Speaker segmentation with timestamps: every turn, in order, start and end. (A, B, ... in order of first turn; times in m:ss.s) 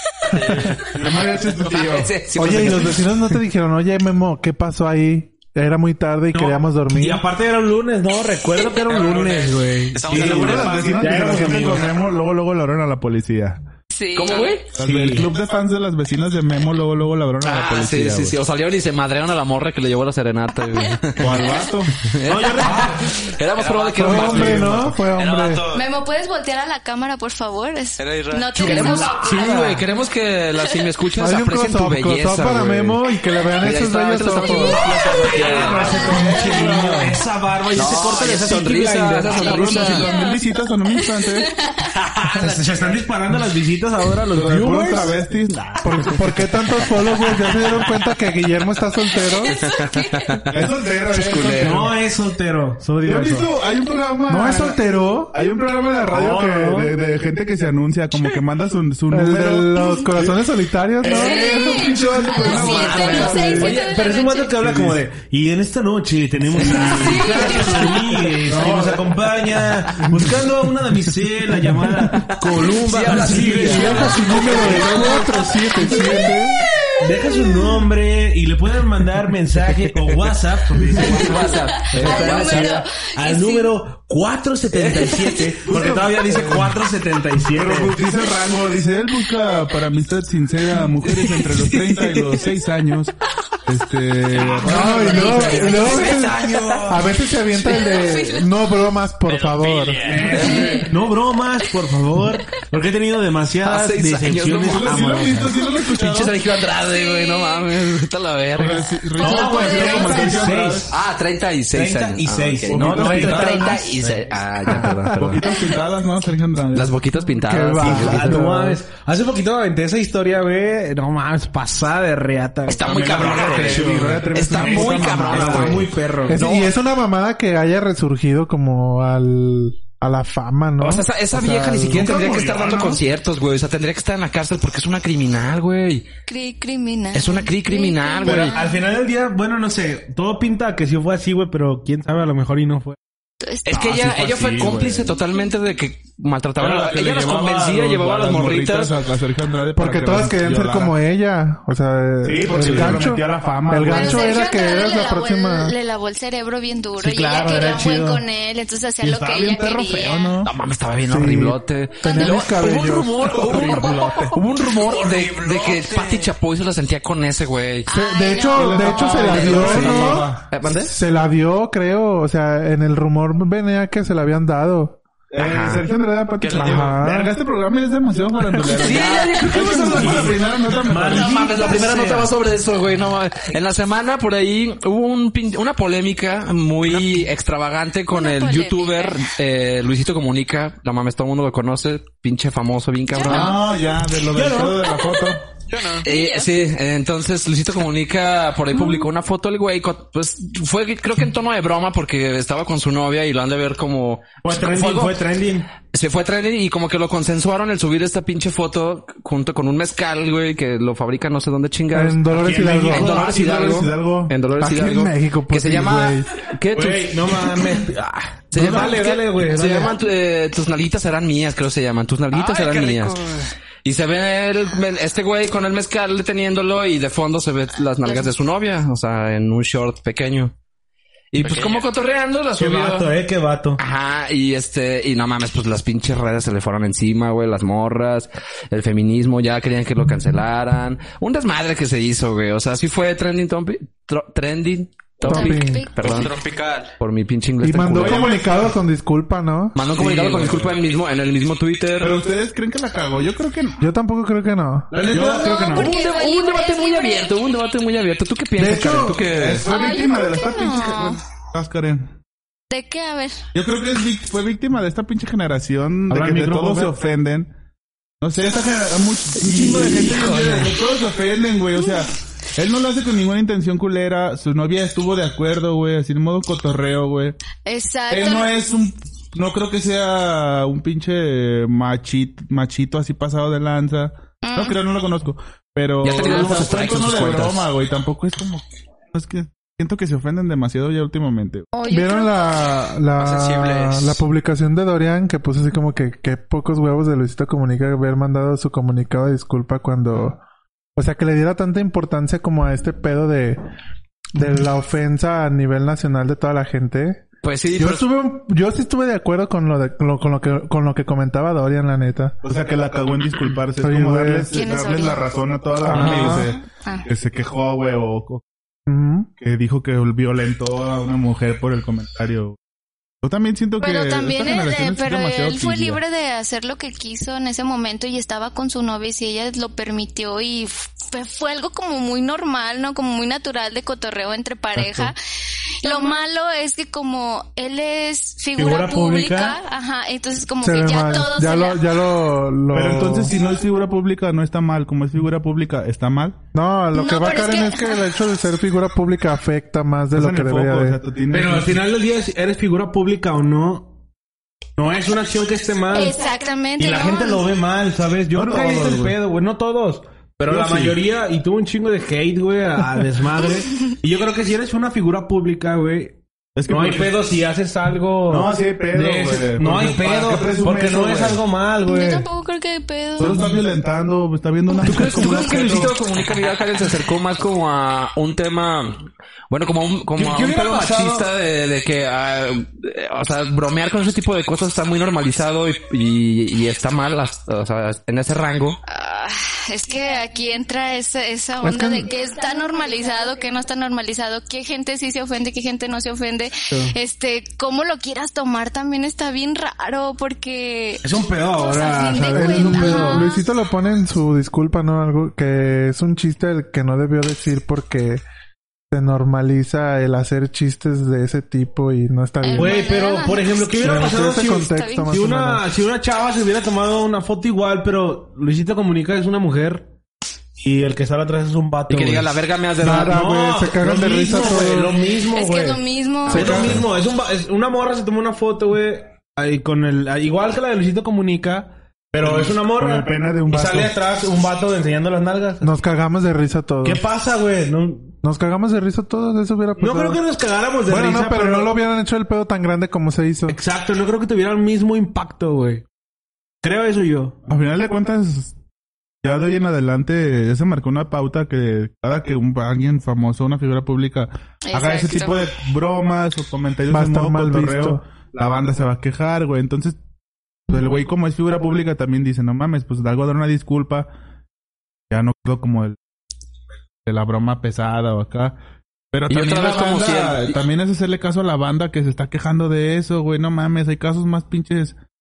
0:00.3-0:01.2 A
0:00.9-0:02.1 B
0:01.6-0:03.1 C
0:02.3-0:07.2 D
0:06.3-0:11.9 E
0:08.8-0:11.9 A
0:10.1-0:13.6 B
0:13.9-0:14.6 F
0:14.1-0:14.7 C
0:14.7-0:18.4 B
0:14.8-0:15.3 E
0:17.4-0:21.5 C
0:21.1-0:22.1 B
0:22.0-0:24.8 C
0:22.2-0:23.1 E
0:23.6-0:25.9 A
0:24.0-0:25.6 D
0:24.0-0:24.9 B
0:25.7-0:29.3 F
0:28.0-0:29.0 A
0:28.6-0:33.0 C
0:28.6-0:29.8 E
0:31.2-0:34.8 D
0:33.6-0:36.1 C
0:34.8-0:36.0 A
0:34.9-0:40.1 E
0:35.6-0:37.2 B
0:37.7-0:40.1 C
0:39.3-0:41.9 F
0:39.6-0:41.6 B
0:42.2-0:43.0 A
0:42.2-0:45.1 E
0:44.3-0:46.5 B
0:45.8-0:49.6 D
0:49.4-0:50.4 F
0:49.5-0:51.9 C
0:50.5-0:52.0 B
0:51.5-0:53.5 E
0:53.0-1:00.4 B
0:54.3-0:55.4 D
0:56.1-0:57.0 E
0:59.1-1:01.8 D
1:01.0-1:03.7 B
1:01.0-1:04.6 F
1:02.4-1:03.7 C
1:02.9-1:15.4 E
1:03.0-1:03.7 D
1:04.6-1:05.0 B
1:06.6-1:08.2 F
1:08.4-1:09.1 B
1:12.1-1:15.2 C
1:13.6-1:16.6 D
1:14.3-1:15.4 B
1:17.0-1:28.0 E
1:17.2-1:17.8 F
1:20.9-1:22.8 C
1:21.3-1:23.8 F
1:24.7-1:25.0 C
1:25.7-1:26.7 B
1:27.5-1:36.0 B
1:34.5-1:37.0 E
1:34.6-1:40.1 D
1:34.8-1:36.8 C
1:37.7-1:38.5 F
1:39.3-1:40.6 A
1:40.0-1:45.5 E
1:40.2-1:40.8 B
1:40.3-1:40.8 C
1:40.4-1:40.9 F
1:43.6-1:48.9 C
1:44.5-1:46.4 B
1:46.9-1:47.6 F
1:48.6-1:50.9 B
1:49.2-1:50.2 F
1:49.2-1:50.9 E
1:50.8-1:55.5 C
1:51.7-1:53.9 E
1:52.7-1:57.0 B
1:54.6-1:55.4 D
1:56.7-1:58.4 C
1:57.4-1:58.8 D
1:57.8-2:06.4 E
2:02.7-2:06.7 C
2:02.8-2:06.0 B
2:06.3-2:12.1 D
2:10.8-2:16.1 C
2:12.0-2:12.5 B
2:12.0-2:13.0 E
2:16.3-2:18.8 F
2:17.1-2:18.5 C
2:18.2-2:23.0 E
2:23.4-2:23.9 F
2:23.6-2:28.9 C
2:23.7-2:25.2 B
2:26.6-2:30.9 B
2:29.7-2:35.7 D
2:32.2-2:34.4 B
2:32.6-2:33.1 E
2:33.8-2:40.4 F
2:37.0-2:38.2 E
2:39.0-2:40.5 B
2:40.4-2:47.9 C
2:41.0-2:43.6 D
2:42.0-2:42.6 F
2:43.2-2:44.4 B
2:44.8-2:46.3 A
2:47.9-2:49.7 F
2:47.9-2:55.0 D
2:48.5-2:50.4 B
2:49.3-2:50.9 C
2:55.3-3:01.5 B
2:55.4-2:55.8 C
2:56.4-2:57.0 A
2:56.5-2:57.3 D
2:58.4-2:59.0 D
2:58.7-3:13.6 C
2:59.9-3:02.3 E
3:08.1-3:09.3 F
3:13.1-3:13.6 F
3:13.2-3:15.5 B
3:14.2-3:14.8 E
3:15.7-3:16.0 A
3:16.0-3:25.2 C
3:16.0-3:16.5 F
3:24.4-3:25.7 E
3:25.8-3:37.6 C
3:31.9-3:33.2 D
3:32.4-3:33.4 E
3:32.9-3:34.3 B
3:34.6-3:36.5 D
3:36.7-3:40.0 E
3:38.5-3:43.2 C
3:42.3-3:43.5 A
3:43.8-3:50.5 C
3:48.0-3:48.3 F
3:51.3-3:53.1 C
3:51.4-3:51.9 A
3:52.5-3:53.8 E
3:53.8-4:06.3 C
4:05.2-4:06.3 F
4:05.2-4:05.9 D
4:06.0-4:06.9 A
4:07.0-4:08.4 C
4:07.6-4:09.8 D
4:07.8-4:08.7 B
4:09.7-4:12.2 C
4:09.9-4:10.8 B
4:12.0-4:13.9 B
4:13.8-4:15.0 D
4:14.9-4:15.9 B
4:14.9-4:15.8 E
4:15.2-4:17.3 F
4:15.7-4:19.6 C
4:18.6-4:19.3 D
4:19.3-4:22.1 B
4:19.7-4:21.2 F
4:22.7-4:23.4 F
4:23.5-4:27.5 B
4:26.1-4:26.9 E
4:28.2-4:37.4 B
4:30.0-4:30.7 C
4:37.6-4:38.5 F
4:38.1-4:51.7 B
4:44.4-4:44.8 F
4:46.0-4:47.7 C
4:51.7-4:52.3 F
4:51.9-5:00.4 D
4:53.2-4:54.2 A
5:01.0-5:03.6 D
5:04.3-5:07.2 D
5:07.4-5:08.1 C
5:07.8-5:12.4 D
5:12.4-5:18.4 B
5:13.8-5:14.5 D
5:14.5-5:15.2 F
5:15.8-5:16.5 D
5:15.9-5:16.5 C
5:18.9-5:19.3 D
5:19.4-5:22.6 B
5:23.2-5:26.0 B
5:23.8-5:35.1 F
5:34.8-5:35.1 D
5:35.8-5:41.8 F
5:38.6-5:39.6 E
5:40.6-5:43.3 D
5:42.7-5:46.4 B
5:46.5-5:51.0 D
5:46.9-5:48.1 F
5:50.1-5:51.8 B
5:51.3-5:53.9 E
5:54.8-5:56.2 E
5:55.9-5:57.4 F
5:56.8-6:12.2 E
5:58.3-5:59.2 B
6:00.5-6:01.0 B
6:06.6-6:07.2 B
6:08.3-6:11.4 B
6:11.8-6:13.5 F
6:13.2-6:16.0 B
6:14.8-6:28.8 C
6:20.1-6:21.3 E
6:28.9-6:41.0 F
6:31.6-6:32.1 D
6:41.0-6:43.3 E
6:41.6-6:43.4 F
6:42.3-6:48.2 D
6:48.9-6:52.8 D
6:52.4-6:55.1 F
6:52.5-6:59.9 E
6:53.8-6:55.6 D
7:00.6-7:02.3 E
7:01.9-7:03.2 C
7:02.8-7:05.0 D
7:02.9-7:15.7 E
7:05.3-7:06.7 F
7:06.3-7:06.8 D
7:12.2-7:13.9 B
7:15.6-7:17.0 D
7:16.8-7:18.1 E
7:18.2-7:20.2 D
7:19.8-7:21.7 E
7:20.9-7:23.6 D
7:23.5-7:25.8 E
7:26.6-7:27.4 E
7:27.5-7:28.5 B
7:29.2-7:40.0 B
7:34.6-7:35.5 F
7:36.9-7:38.0 D
7:40.7-7:44.1 B
7:45.1-7:46.0 B
7:47.0-7:48.6 B
7:49.1-7:55.0 B
7:49.3-7:50.6 C